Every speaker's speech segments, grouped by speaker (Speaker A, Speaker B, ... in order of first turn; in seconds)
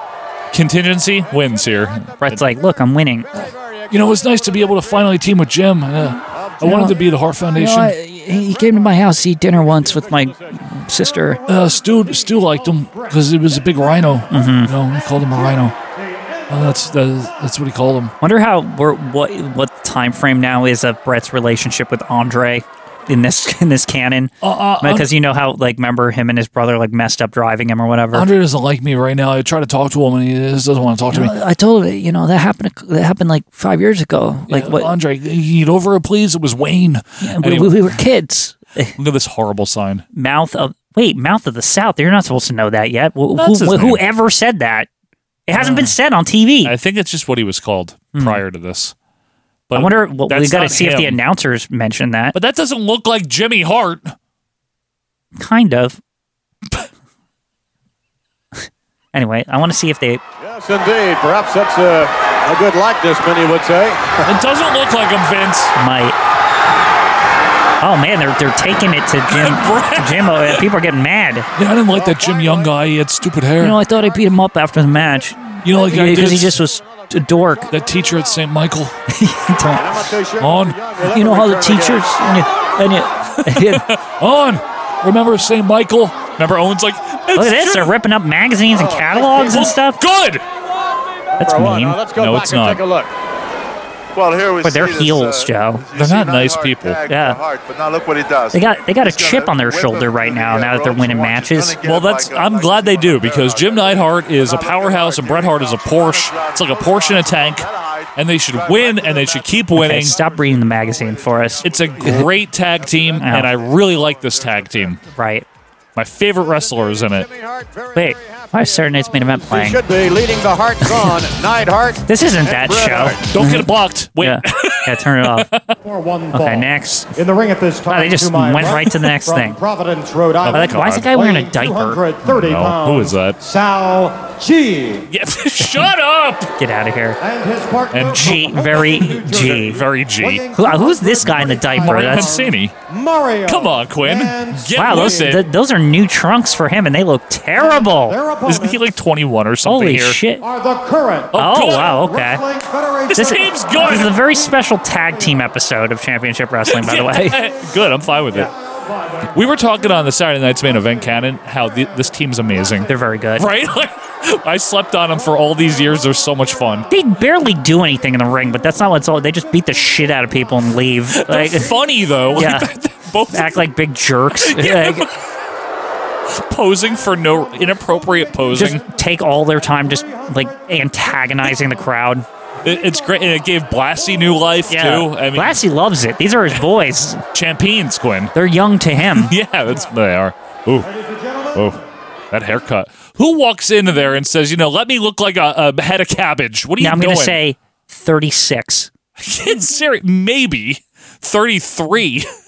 Speaker A: 0.5-2.4, 3.9-8.0, 11.4-15.7, 16.5-18.1, 24.4-25.1, 28.1-31.4, 34.5-37.9, 39.0-40.0, 43.4-44.0, 45.5-45.9, 46.6-48.9, 49.7-51.2, 52.3-54.1, 64.2-65.7, 69.3-70.6, 71.5-73.8, 75.6-76.6, 77.7-79.0, 80.4-80.9, 83.3-87.9, 89.4-90.4, 92.1-92.8, 95.9-97.0, 101.8-110.2, 111.6-115.0, 115.9-117.3, 123.2-125.7, 130.4-131.1, 132.2-133.4, 135.1-136.5, 137.9-140.5, 141.3-142.7, 143.4-145.4, 148.4-150.2, 151.3-152.0, 153.1-154.1, 156.7-158.5, 159.3-166.9, 171.1-173.7, 174.4-175.2, 176.3-178.8, 182.6-185.6, 187.3-188.3, 189.1-190.9, 191.5-197.4, 199.2-202.3
Speaker B: 2.2-3.3, 6.6-7.0, 7.5-11.4, 14.3-14.7, 18.2-28.3, 31.1-34.9, 37.2-38.9, 40.1-44.9, 45.5-46.7, 48.1-48.4, 49.7-52.4, 55.4-56.0, 59.1-60.2, 65.8-66.2, 67.8-71.5, 73.6-77.7, 79.1-80.1, 81.0-83.8, 87.3-90.0, 91.4-92.0, 94.6-95.8, 97.1-97.4, 98.5-101.8, 109.7-112.3, 113.2-113.5, 115.1-115.5, 117.9-119.8, 120.9-121.1, 122.0-125.5, 126.3-127.1, 127.8-129.6, 130.5-132.0, 136.6-137.2, 138.1-139.8, 140.5-142.3, 144.7-148.2, 149.6-150.4, 151.3-152.4, 153.8-157.4, 162.9-163.5, 166.9-171.7, 172.3-172.7, 173.3-175.1, 178.5-182.2, 184.7-187.2, 188.3-189.3, 196.8-198.9
Speaker C: 3.4-4.7, 6.3-6.6, 8.3-11.4, 60.4-64.2, 71.9-72.9, 79.7-82.1, 88.8-89.5, 91.4-93.1, 117.0-123.2
Speaker D: 12.9-13.3, 15.4-16.4, 125.8-135.1, 137.2-145.3, 147.5-148.8, 150.4-155.3, 158.5-159.3, 190.9-191.6
Speaker E: 94.1-115.0